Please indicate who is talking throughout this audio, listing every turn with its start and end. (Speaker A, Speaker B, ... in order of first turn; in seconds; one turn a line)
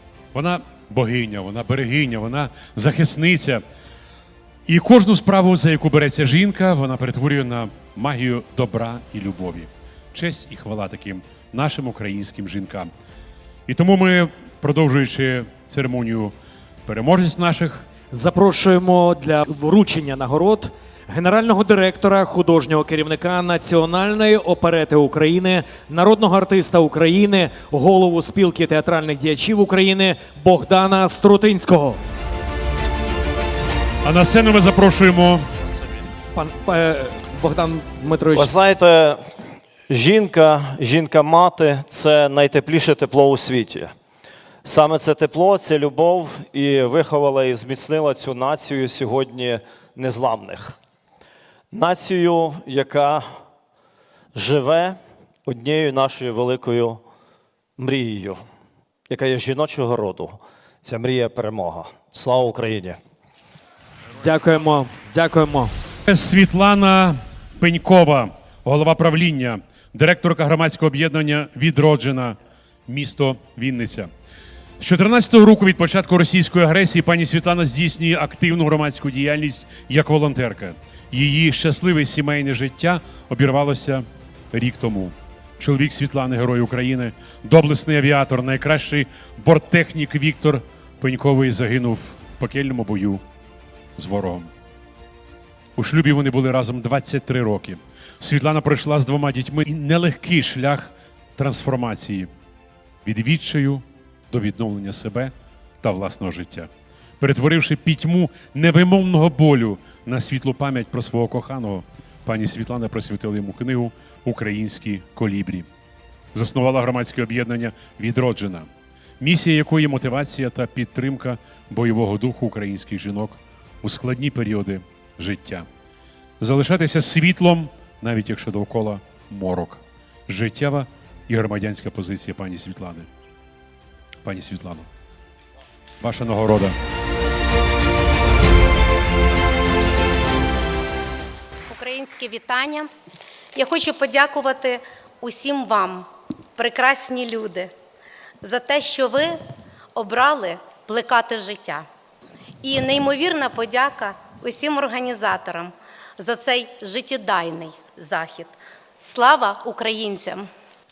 Speaker A: 0.3-3.6
Speaker A: 4.7-12.9
Speaker A: 13.7-16.3
Speaker A: 16.9-17.9
Speaker B: 18.1-32.0
Speaker A: 34.0-35.5
Speaker B: 36.3-38.5
Speaker C: 38.4-39.4
Speaker C: 39.9-43.9
Speaker C: 44.6-50.8
Speaker C: 51.7-53.4
Speaker C: 54.3-57.0
Speaker C: 57.8-58.4
Speaker C: 59.1-63.0
Speaker B: 64.2-65.7
Speaker A: 66.1-74.1
Speaker A: 74.8-93.2
Speaker A: 94.0-94.5
Speaker A: 95.8-102.3
Speaker A: 103.0-115.7
Speaker A: 116.3-118.7
Speaker A: 119.2-125.7
Speaker A: 126.4-133.1
Speaker A: 134.2-134.9
Speaker A: 136.0-136.8
Speaker D: 141.7-142.9
Speaker D: 143.6-147.7
Speaker D: 148.4-149.4
Speaker D: 149.9-151.8
Speaker D: 152.6-160.5